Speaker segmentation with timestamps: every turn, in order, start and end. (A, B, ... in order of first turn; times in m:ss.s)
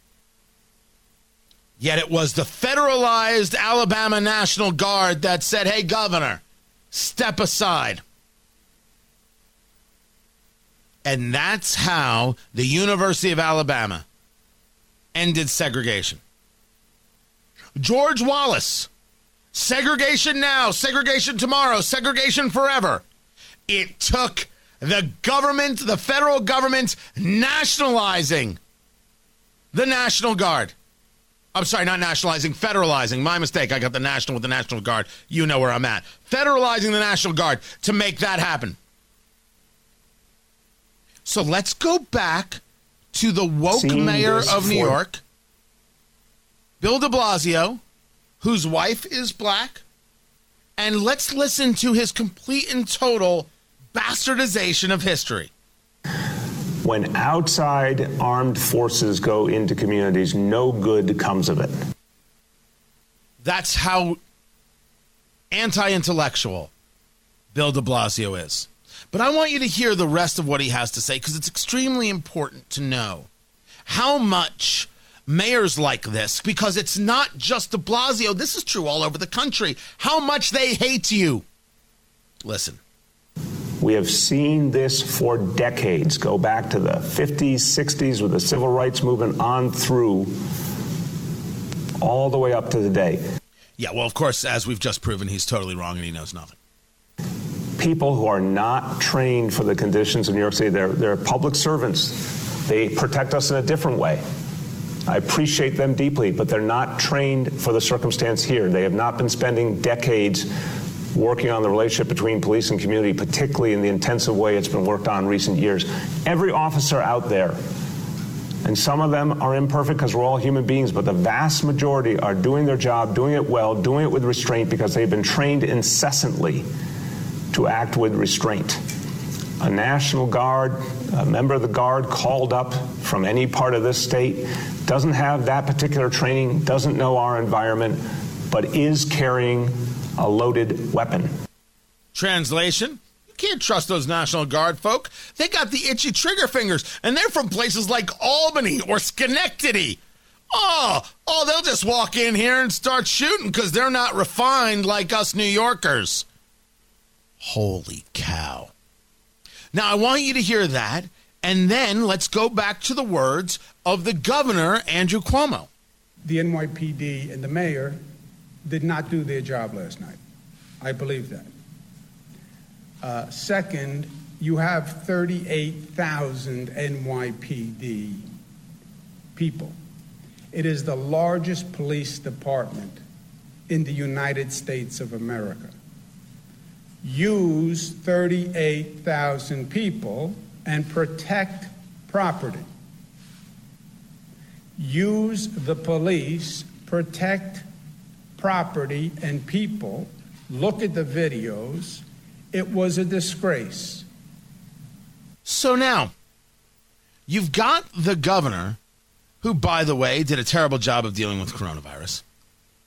0:01.8-0:08.0 A
0:11.0-0:14.0 A
0:15.2-0:16.2 A
0:17.8-0:18.9 A
0:19.5-0:23.0 A
0:23.7-0:28.6 A
0:29.7-0:30.8 A
0:31.6-0:38.8 A
0:41.2-0:42.6 A
0:43.1-0:45.2 A
0:43.7-0:45.0 B
0:46.8-0:47.8 A
0:48.4-0:49.8 A
0:50.8-0:55.5 A
0:56.8-1:01.7 B
1:03.4-1:04.2 A
1:05.5-1:06.7 A
1:07.5-1:13.3 A
1:13.9-1:21.4 A
1:22.4-1:22.8 A
1:23.8-1:30.3 B
1:32.0-1:33.2 B
1:33.8-1:36.6 A
1:37.8-1:44.2 B
1:45.1-1:50.4 B
1:51.1-1:57.6 B
1:58.6-2:06.6 B
2:07.5-2:08.8 B
2:09.6-2:18.0 B
2:18.5-2:21.3 B
2:22.1-2:30.0 A
2:30.5-2:36.3 A
2:37.4-2:38.7 A
2:39.7-2:45.7 A
2:46.2-2:48.0 C
2:48.7-2:50.2 C
2:50.8-2:51.5 C
2:53.0-2:58.2 C
2:59.4-2:59.8 C
3:00.5-3:03.0 C
3:03.7-3:05.7 C
3:07.0-3:12.7 C
3:14.8-3:17.7 C
3:18.4-3:24.1 C
3:25.4-3:26.1 A
3:27.3-3:28.8 A
3:29.4-3:32.2 A